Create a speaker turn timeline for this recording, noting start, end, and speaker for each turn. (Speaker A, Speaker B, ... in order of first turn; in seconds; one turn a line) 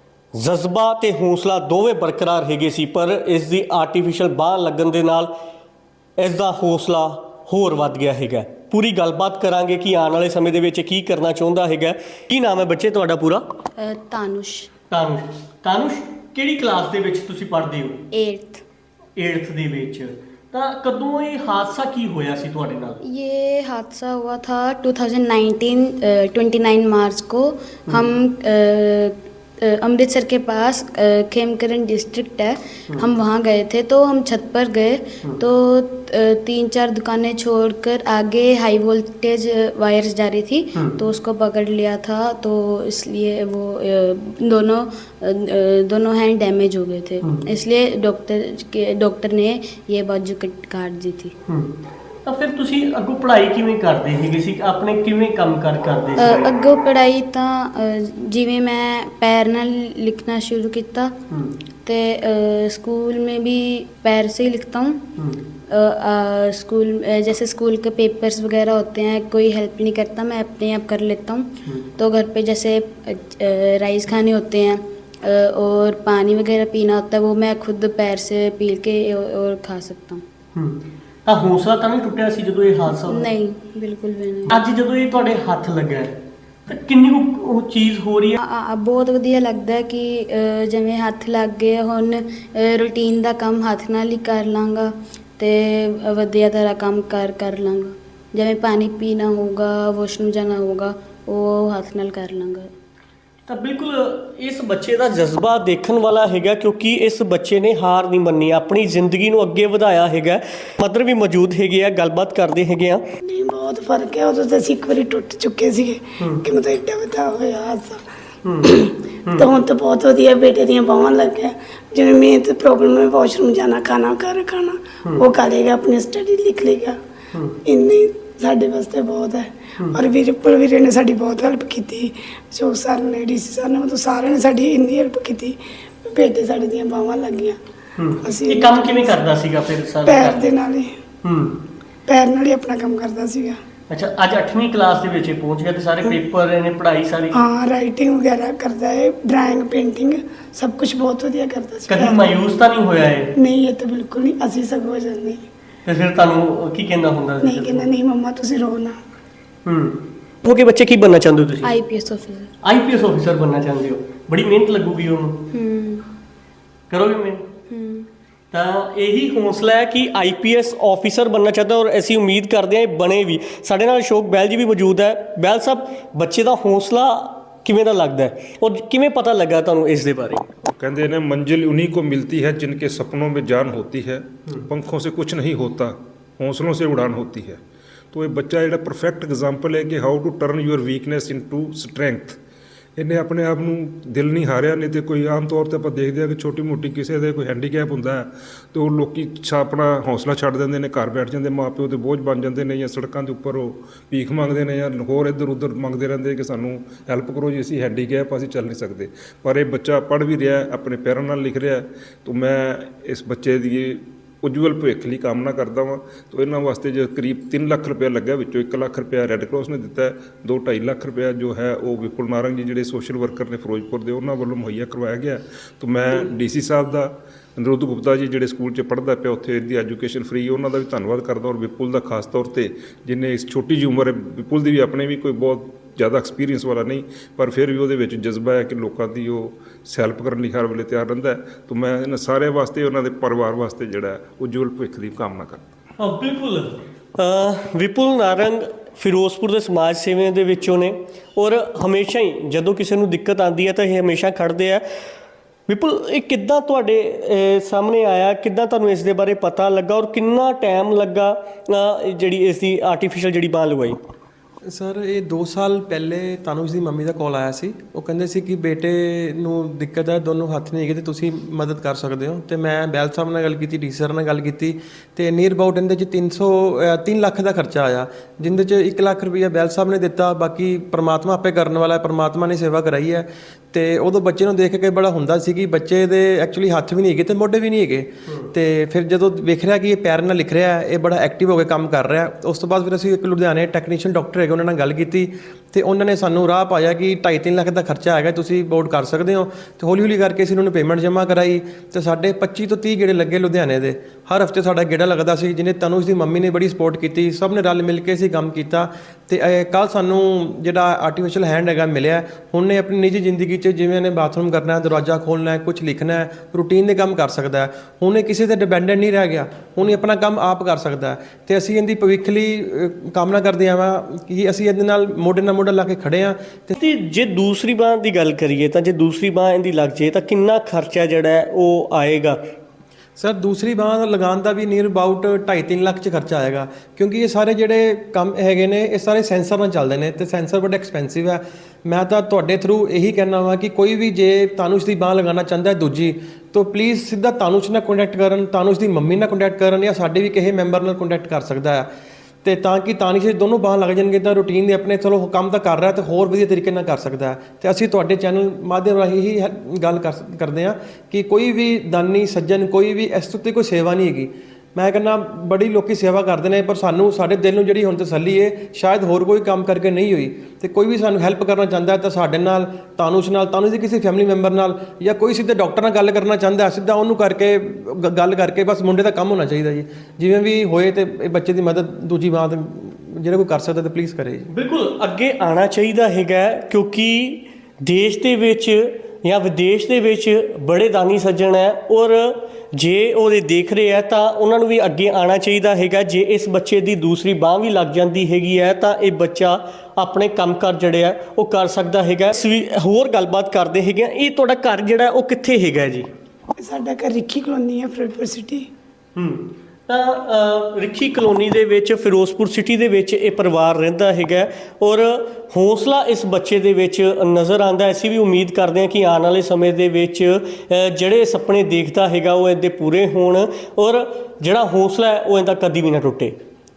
Speaker A: 0.3-5.3
Speaker A: 6.2-13.4
Speaker B: 13.8-14.7
Speaker A: 14.9-18.0
Speaker B: 18.1-18.6
Speaker A: 19.1-23.0
Speaker B: 23.0-51.3
Speaker A: 52.2-56.5
Speaker B: 56.2-61.1
Speaker B: 61.8-65.0
Speaker B: 65.7-80.2
Speaker A: 80.5-83.3
Speaker B: 83.0-84.5
Speaker A: 84.5-86.2
Speaker A: 86.7-88.4
Speaker B: 88.4-102.7
Speaker A: 103.5-113.0
Speaker C: 113.2-118.0
Speaker A: 116.2-116.4
Speaker A: 118.4-118.7
Speaker C: 118.6-127.0
Speaker C: 127.6-137.6
Speaker A: 138.0-140.6
Speaker C: 138.2-139.1
Speaker C: 140.0-141.0
Speaker A: 141.2-141.6
Speaker C: 142.1-143.6
Speaker A: 143.9-147.4
Speaker C: 147.3-152.3
Speaker A: 151.9-153.3
Speaker C: 153.4-155.4
Speaker A: 155.8-157.9
Speaker C: 157.4-159.0
Speaker A: 159.6-161.7
Speaker B: 161.6-162.5
Speaker A: 162.6-165.4
Speaker B: 165.5-166.1
Speaker A: 166.9-167.4
Speaker B: 167.7-168.1
Speaker A: 168.5-180.4
Speaker D: 180.7-187.6
Speaker D: 188.1-192.4
Speaker D: 193.0-245.7
Speaker A: 246.0-254.8
Speaker A: 255.7-264.0
Speaker E: 264.6-326.7
Speaker A: 326.7-332.4
Speaker E: 333.2-351.9
Speaker E: 352.4-384.5
Speaker A: 384.5-406.1
Speaker C: 406.6-408.7
Speaker A: 409.1-426.3